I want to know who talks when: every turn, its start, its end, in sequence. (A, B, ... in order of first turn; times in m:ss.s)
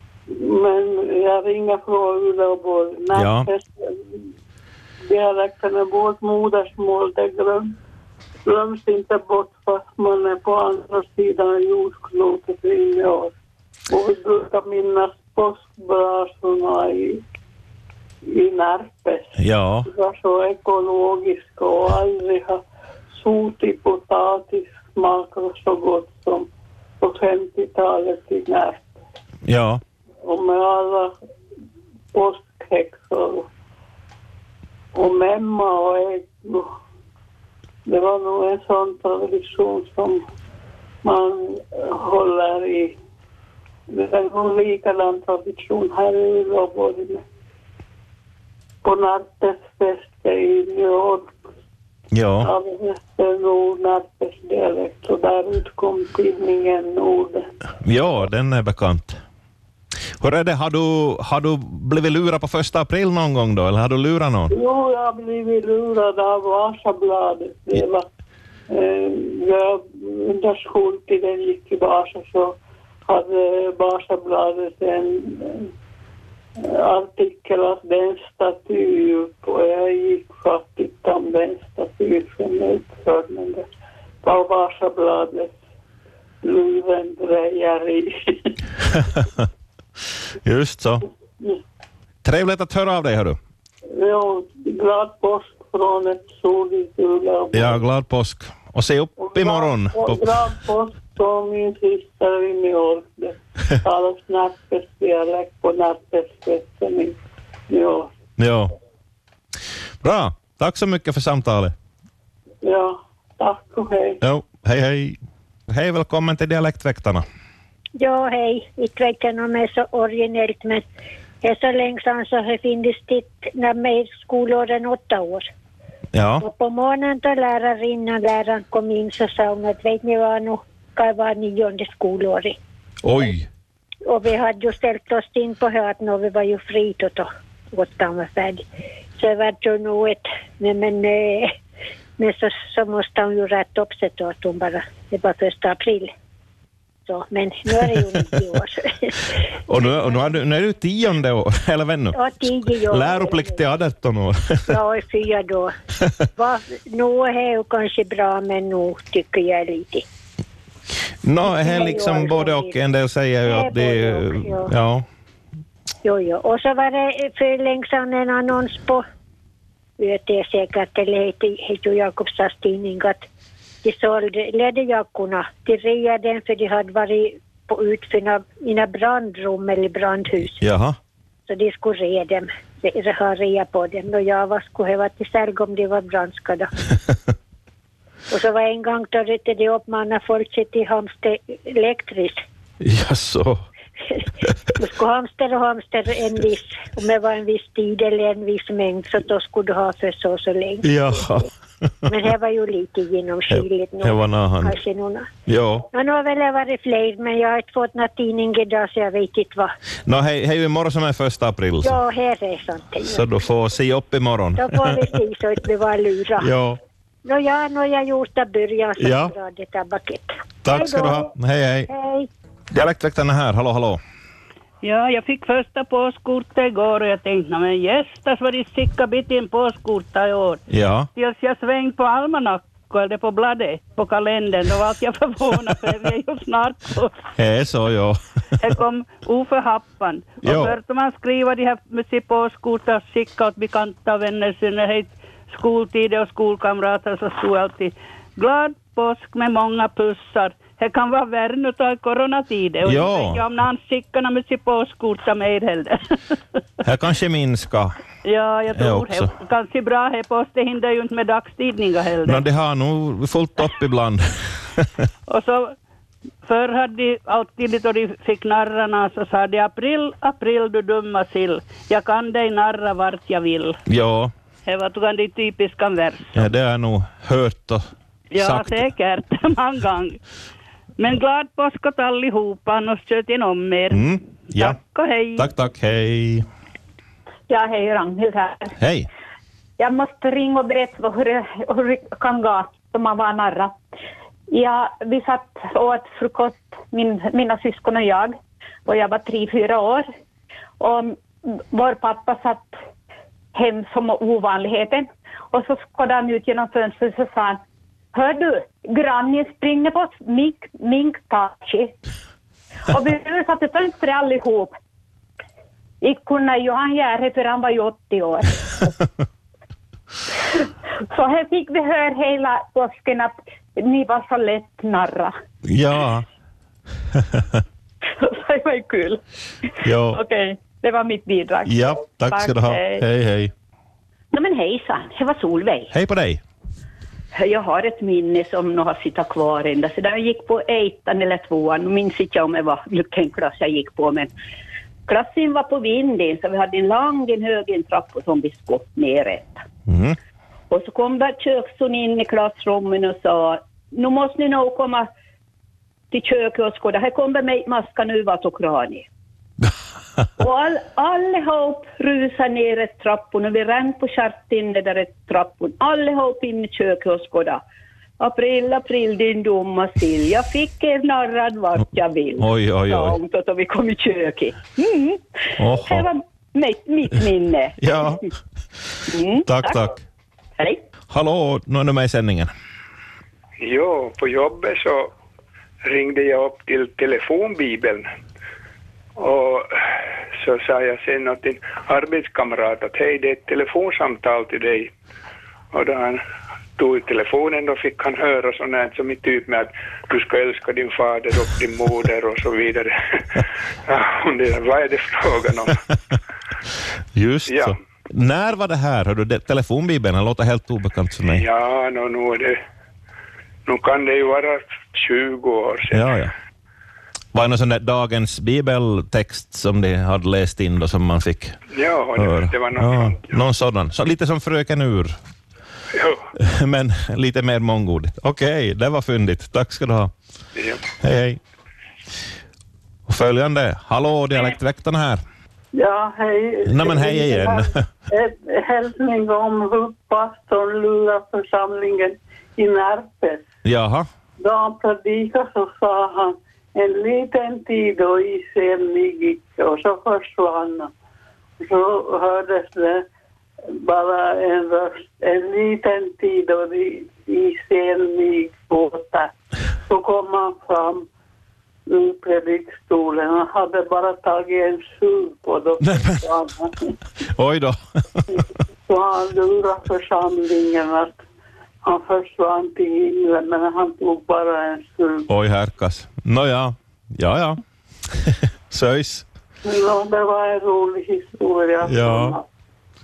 0:00.3-0:04.2 A
0:03.2-0:03.5 B
0:05.1-0:07.8 A
0:08.5-0:13.3 A
0:13.9-0:17.2 A
0:18.3-0:26.5 A
0:19.4-0:19.9 B
0:27.0-0:28.9 A
0:29.4-0:29.8 B
0:30.2-0:31.2 A
0:32.1-0:33.5 A
0:34.9-0:36.7 A
0:37.9-0:40.2 A
0:41.0-0:43.0 A
0:43.9-0:47.2 A
0:48.8-0:51.4 A
0:52.1-0:52.5 B
0:52.4-0:57.5 A
0:57.8-0:59.2 B
1:00.2-1:04.5 B
1:04.5-1:08.1 A
1:08.7-1:15.7 A
1:16.6-1:23.7 A
1:24.2-1:25.6 A
1:26.4-1:28.5 A
1:29.0-1:29.5 B
1:30.4-1:31.0 B
1:32.2-1:33.4 B
1:34.0-1:37.8 A
1:37.5-1:40.4 B
1:39.2-1:47.2 A
1:47.7-1:48.1 A
1:48.4-1:48.7 B
1:50.0-1:51.8 B
1:52.6-1:54.2 A
1:54.2-1:55.2 B
1:55.7-1:57.2 B
1:58.0-2:00.8 C
2:01.4-2:05.5 C
2:06.1-2:06.4 B
2:06.4-2:12.6 C
2:13.0-2:13.5 B
2:14.1-2:18.6 C
2:19.2-2:21.5 C
2:22.2-2:26.1 C
2:27.1-2:29.9 C
2:29.7-2:32.2 B
2:32.1-2:33.6 C
2:32.8-2:34.7 B
2:34.7-2:35.7 C
2:36.4-2:40.0 C
2:41.2-2:45.0 B
2:41.4-2:42.7 C
2:43.4-2:44.7 C
2:46.0-2:49.0 C
2:50.0-2:53.2 C
2:53.8-3:00.6 C
3:00.6-3:01.0 B
3:01.5-3:06.7 C
3:08.3-3:12.4 C
3:12.8-3:13.6 B
3:14.8-3:20.9 C
3:20.8-3:21.5 B
3:22.1-3:25.3 C
3:23.5-3:24.8 B
3:25.5-3:25.9 B
3:25.9-3:29.7 C
3:30.1-3:32.0 B
3:31.8-3:33.2 C
3:33.0-3:35.0 B
3:34.6-3:36.5 C
3:36.4-3:36.8 B
3:37.2-3:41.3 C
3:39.0-3:39.3 B
3:40.6-3:41.9 B
3:41.9-3:42.3 C
3:42.7-3:44.0 B
3:44.8-3:50.6 D
3:50.7-3:51.1 B
3:51.2-3:57.2 D
3:57.4-3:58.2 B
3:58.6-4:16.4 D
4:00.4-4:00.8 B
4:12.8-4:13.4 B
4:16.8-4:18.0 B
4:18.2-4:22.4 D
4:18.7-4:19.3 B
4:22.2-4:24.9 B
4:25.3-4:25.7 D
4:26.4-4:33.8 D
4:33.9-4:34.3 B
4:34.7-4:36.4 D
4:36.3-4:38.9 B
4:38.3-4:40.2 D
4:41.0-4:44.0 D
4:43.9-4:44.8 B
4:44.6-4:45.5 D
4:45.4-4:46.4 B
4:47.5-4:48.7 E
4:48.8-4:49.1 B
4:49.8-4:53.8 E
4:54.5-5:00.1 E
5:00.8-5:02.8 E
5:03.5-5:07.6 E
5:08.1-5:11.9 E
5:12.9-5:14.8 E
5:16.0-5:18.7 E
5:21.1-5:25.4 E
5:25.6-5:26.3 B
5:27.1-5:27.6 B
5:28.5-5:28.8 E
5:28.8-5:29.1 F
5:29.8-5:30.2 B
5:30.4-5:31.7 E
5:31.6-5:33.5 B
5:32.3-5:33.0 F
5:34.3-5:35.9 F
5:35.9-5:36.4 B
5:37.3-5:44.3 F
5:45.1-5:49.6 F
5:49.9-5:50.2 B
5:50.7-5:55.1 F
5:56.1-5:59.1 F
6:00.4-6:07.6 F
6:08.2-6:18.2 F
6:12.4-6:13.2 B
6:15.6-6:16.1 B
6:17.8-6:18.2 B
6:19.1-6:19.9 F
6:19.4-6:20.0 B
6:21.1-6:22.5 B
6:23.6-6:25.1 G
6:25.8-6:28.1 G
6:29.2-6:29.7 G
6:30.4-6:34.9 G
6:35.7-6:36.2 G
6:36.8-6:45.8 G
6:47.1-6:51.5 B
6:47.5-6:47.7 G
6:51.3-6:52.6 G
6:53.7-6:56.1 G
6:55.9-6:56.3 B
6:57.3-7:01.6 B
7:01.7-7:03.4 G
7:02.2-7:05.2 B
7:06.0-7:06.2 G
7:06.4-7:10.1 B
7:11.0-7:11.4 B
7:13.1-7:15.2 B
7:15.7-7:23.4 A
7:16.7-7:17.8 B
7:23.6-7:24.1 B
7:24.4-7:30.9 A
7:31.6-7:33.1 A
7:33.8-7:39.3 A
7:39.9-7:41.1 A
7:41.9-7:47.0 A
7:45.8-7:46.2 B
7:47.3-7:48.3 B
7:48.9-7:51.2 A
7:51.8-7:55.3 A
7:55.3-7:59.3 B
7:59.6-8:02.4 A
8:01.8-8:02.4 B